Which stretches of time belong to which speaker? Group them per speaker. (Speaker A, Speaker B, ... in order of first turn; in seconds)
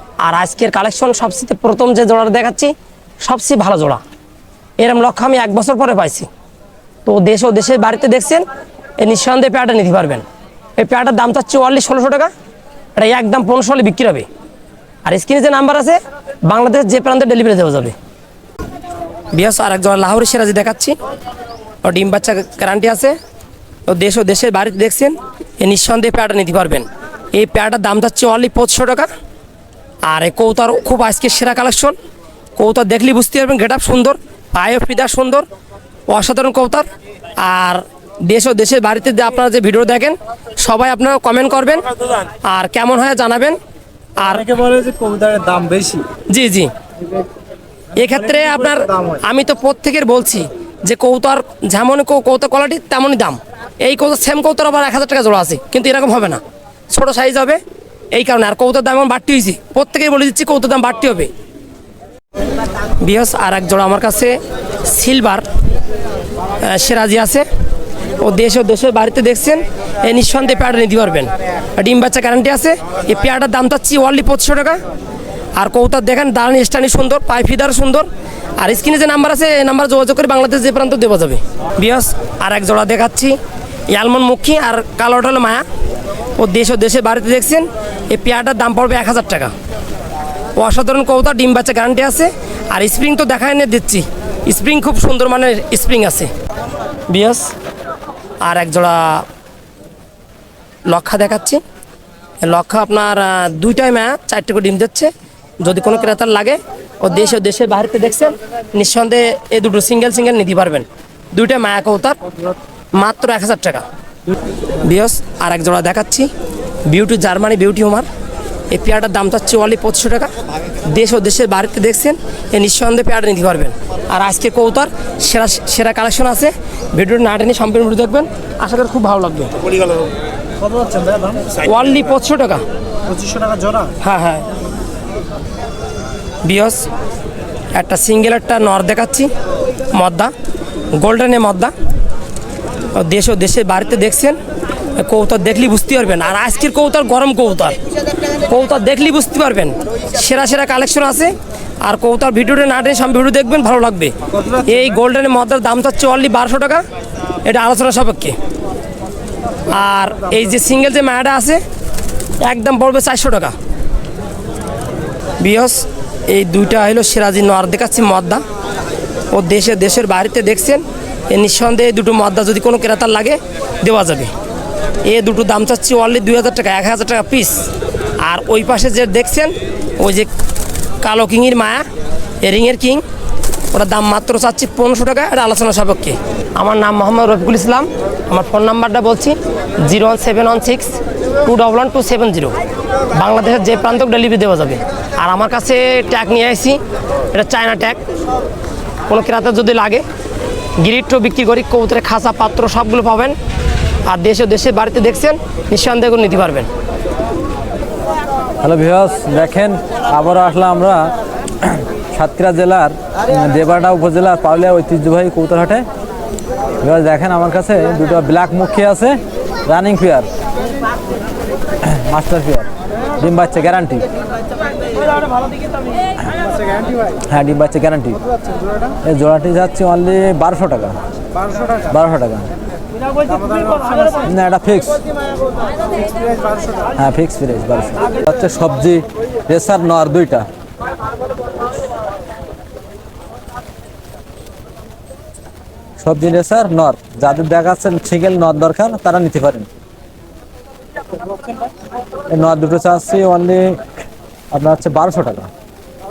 Speaker A: 0.2-4.0, 4.8-6.3, 7.0-8.4, 9.0-10.2, 10.8-12.3, 12.9-14.2, 15.1-17.9, 19.3-20.9, 21.8-23.1, 23.9-29.1, 30.1-31.9, 32.6-35.5, 36.1-36.8, 37.4-41.9, 42.5-43.6, 44.2-44.4, 46.3-46.7, 48.0-57.6, 58.1-61.3, 63.0-65.5, 66.6-67.5, 68.2-74.8, 75.5-78.1, 78.6-83.4, 83.9-85.6, 86.4-89.5, 90.6-96.3, 97.1-97.5, 98.4-99.2, 100.9-101.6, 102.4-112.2, 113.0-113.8, 114.8-116.3, 116.9-118.0, 118.7-120.3, 120.8-129.5, 131.6-132.6, 134.0-134.4, 136.4-136.8, 137.7-139.3, 139.9-140.3, 141.0-141.7, 142.9-144.4, 145.0-147.8, 148.5-154.1, 154.7-156.8, 157.4-158.3, 159.7-161.6, 162.4-163.5, 165.4-168.4, 169.3-174.3, 175.1-177.7, 178.2-180.3, 181.0-181.8, 182.4-183.0, 183.7-192.6, 193.1-196.8, 197.3-198.0, 199.1-200.0, 200.8-203.3, 204.1-206.7
Speaker B: 44.2-46.0, 48.0-49.2, 130.6-131.6, 133.1-133.9, 154.3-154.8, 226.4-227.2, 228.1-228.9, 231.4-231.9, 233.2-234.2, 236.0-236.8
Speaker C: 208.6-211.1, 211.6-215.8, 216.8-220.3, 221.8-222.7, 223.2-224.0, 227.3-228.2, 229.1-231.0, 231.9-232.5, 234.3-235.0, 236.9-240.4, 246.0-249.7, 252.3-253.8, 254.5-255.5